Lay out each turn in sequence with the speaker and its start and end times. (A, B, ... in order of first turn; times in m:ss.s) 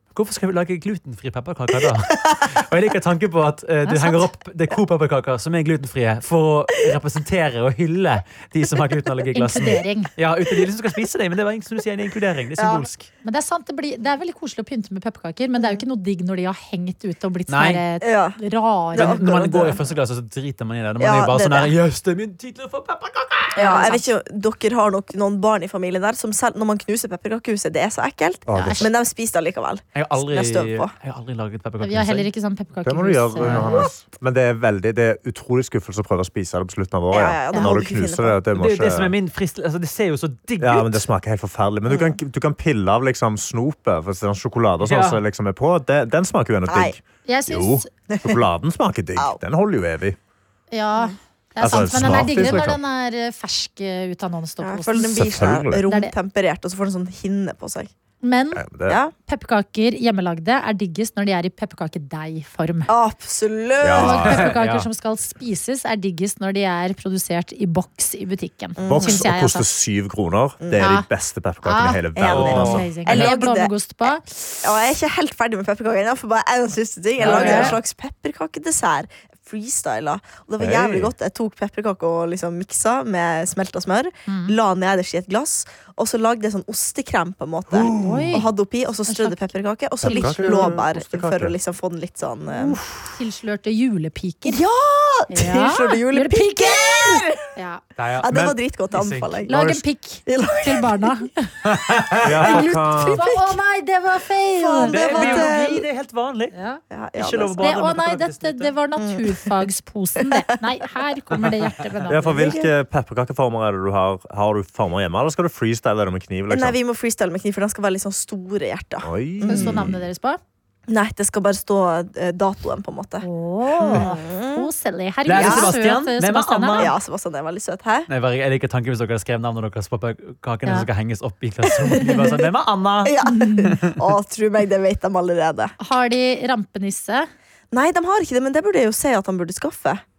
0:00.1-0:13.1 A
0:02.0-0:02.4 B
0:03.8-0:04.3 C
0:09.3-0:10.1 C
0:12.6-0:12.9 B
0:13.2-0:19.2 C
0:17.5-0:17.8 A
0:18.0-0:18.4 B
0:18.9-0:19.8 B
0:19.0-0:23.9 A
0:21.0-0:21.7 B
0:23.6-0:24.1 C
0:23.6-0:30.9 B
0:28.5-0:28.9 D
0:28.6-0:28.9 C
0:29.9-0:32.3 A
0:31.8-0:33.6 C
0:32.8-0:39.1 D
0:33.4-0:33.7 A
0:33.5-0:33.9 B
0:37.1-0:38.4 B
0:38.6-0:41.0 A
0:40.6-0:50.2 D
0:41.9-0:42.1 B
0:44.8-0:45.2 A
0:46.7-0:47.0 B
0:47.2-0:47.9 C
0:48.1-0:48.4 B
0:50.7-0:55.1 C
0:51.6-0:52.8 D
0:52.2-0:52.6 B
0:54.6-0:57.9 B
0:55.0-0:55.8 D
0:55.9-0:56.1 C
0:58.2-0:58.6 C
0:58.5-0:59.0 D
0:58.9-0:59.1 B
0:59.3-1:02.9 C
1:02.9-1:04.2 B
1:03.8-1:04.5 D
1:03.9-1:09.6 C
1:04.0-1:04.9 A
1:08.8-1:09.2 B
1:08.8-1:13.0 D
1:10.6-1:10.8 B
1:10.8-1:11.1 C
1:11.6-1:14.6 C
1:12.1-1:13.7 B
1:12.3-1:13.2 A
1:14.6-1:32.8 B
1:17.2-1:17.8 A
1:17.2-1:17.8 C
1:20.6-1:21.1 D
1:24.3-1:24.6 C
1:27.7-1:28.4 D
1:27.9-1:28.5 C
1:29.1-1:29.4 C
1:30.0-1:31.6 D
1:30.1-1:30.7 C
1:32.6-1:34.6 C
1:34.4-1:37.5 B
1:35.3-1:37.8 C
1:38.0-1:39.8 A
1:38.2-1:39.6 B
1:39.5-1:41.6 C
1:40.2-1:41.2 B
1:41.6-1:42.6 A
1:42.2-1:43.3 D
1:42.3-1:43.6 B
1:43.1-1:45.5 C
1:44.6-1:45.8 B
1:44.9-1:46.6 A
1:46.5-1:46.8 C
1:46.9-1:47.7 B
1:47.2-1:48.7 A
1:47.6-1:52.6 C
1:49.0-1:49.5 B
1:50.2-1:50.5 B
1:52.1-1:56.8 D
1:52.3-1:52.7 B
1:56.5-1:59.9 B
1:59.0-2:00.0 D
1:59.4-2:00.4 C
2:00.9-2:03.2 B
2:03.2-2:06.9 C
2:03.8-2:04.7 B
2:05.2-2:06.9 A
2:05.4-2:05.7 B
2:06.8-2:08.1 B
2:08.1-2:13.9 A
2:11.7-2:12.4 B
2:13.0-2:15.7 B
2:13.2-2:13.7 C
2:15.8-2:17.3 C
2:17.7-2:20.0 B